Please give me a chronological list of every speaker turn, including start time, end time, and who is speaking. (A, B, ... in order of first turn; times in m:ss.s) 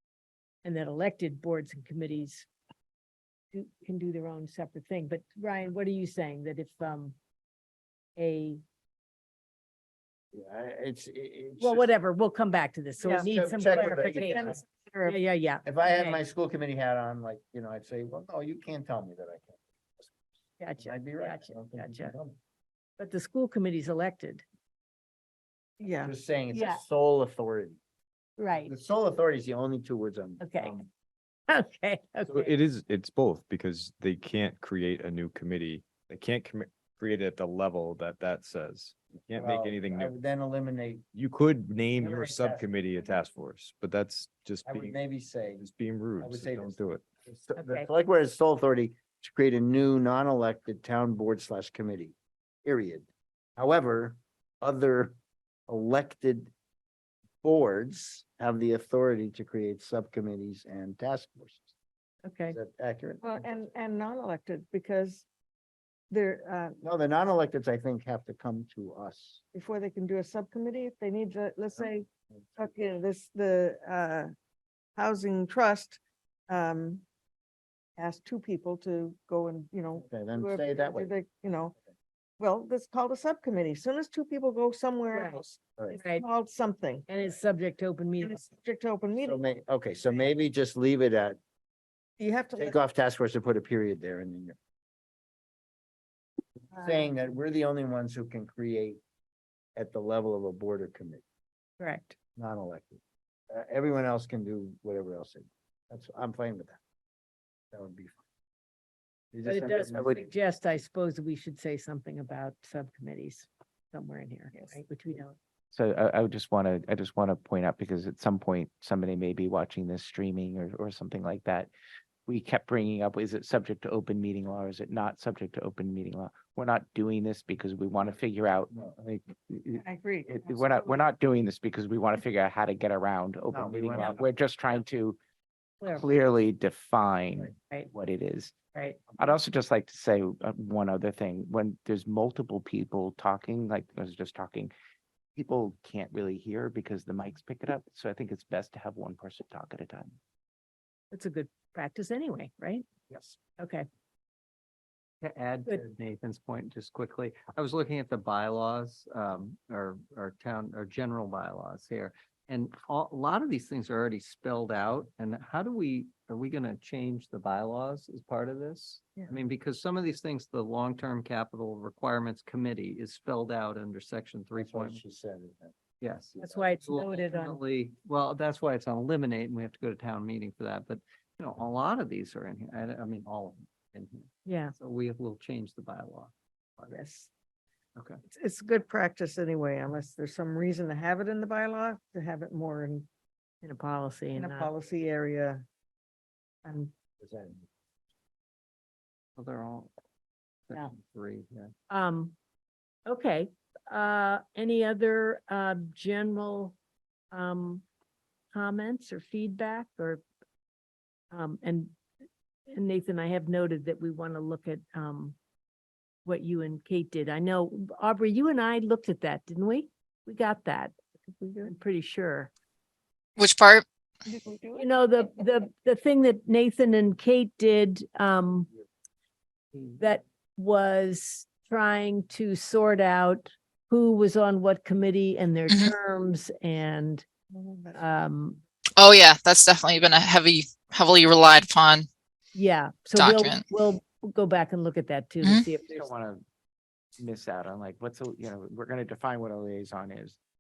0:00.6-0:02.5 A
0:03.5-0:07.2 A
0:08.2-0:08.6 A
0:10.3-0:11.9 B
0:11.6-0:16.2 A
0:13.0-0:15.2 C
0:13.3-0:14.4 B
0:15.6-0:20.2 B
0:20.6-0:22.1 A
0:20.8-0:22.4 B
0:23.0-0:24.4 A
0:25.8-0:26.1 C
0:26.0-0:27.8 B
0:26.5-0:26.8 A
0:28.4-0:28.7 A
0:28.6-0:30.9 B
0:30.4-0:30.8 A
0:31.5-0:32.5 A
0:32.3-0:40.1 D
0:39.3-0:41.0 B
0:41.1-0:45.0 D
0:41.9-0:42.7 B
0:44.6-0:55.2 B
0:45.6-0:47.0 D
0:47.6-0:47.9 A
0:55.7-0:56.5 B
0:57.4-1:01.7 B
1:02.2-1:02.6 A
1:02.5-1:03.5 B
1:03.2-1:05.2 C
1:06.1-1:06.8 C
1:06.8-1:09.4 B
1:09.5-1:12.0 C
1:12.6-1:14.3 C
1:15.0-1:17.0 C
1:18.0-1:21.7 C
1:20.0-1:21.1 B
1:22.4-1:27.1 C
1:25.1-1:25.4 A
1:26.0-1:26.2 A
1:27.1-1:28.4 A
1:28.2-1:29.4 C
1:29.2-1:31.4 B
1:32.2-1:32.8 C
1:32.6-1:34.6 B
1:36.7-1:39.0 B
1:39.8-1:41.2 B
1:41.8-1:42.1 A
1:42.4-1:46.8 B
1:47.7-1:48.2 B
1:49.3-1:50.1 B
1:49.4-1:55.4 A
1:49.8-1:50.2 E
1:55.7-2:01.7 E
2:02.3-2:15.2 E
2:08.7-2:09.0 B
2:09.8-2:11.0 C
2:13.5-2:14.3 B
2:15.8-2:18.5 E
2:19.2-2:24.7 E
2:25.4-2:30.1 E
2:31.1-2:32.8 A
2:33.6-2:33.8 A
2:35.2-2:55.0 F
2:54.6-2:55.7 B
2:56.0-3:07.0 F
2:56.4-2:56.7 B
2:56.4-2:57.6 A
3:04.4-3:04.7 A
3:06.9-3:07.3 C
3:08.3-3:13.1 C
3:13.6-3:14.7 A
3:14.3-3:15.6 C
3:16.6-3:16.9 C
3:17.2-3:17.6 B
3:19.4-3:19.9 F
3:20.7-3:21.7 F
3:21.9-3:22.3 A
3:23.1-3:26.8 A
3:27.3-3:27.8 A
3:28.5-3:30.2 A
3:31.3-3:31.9 A
3:32.7-3:35.4 A
3:36.2-3:41.0 A
3:41.4-3:41.7 C
3:41.6-3:42.5 A
3:43.4-3:43.8 G
3:44.3-3:44.9 C
3:44.8-3:48.7 A
3:50.0-3:57.2 A
3:57.5-3:58.0 C
3:58.0-3:58.6 A
3:59.0-4:02.1 G
4:02.5-4:06.0 A
4:03.1-4:03.6 G
4:05.4-4:05.7 G
4:05.8-4:06.4 E
4:07.2-4:10.4 E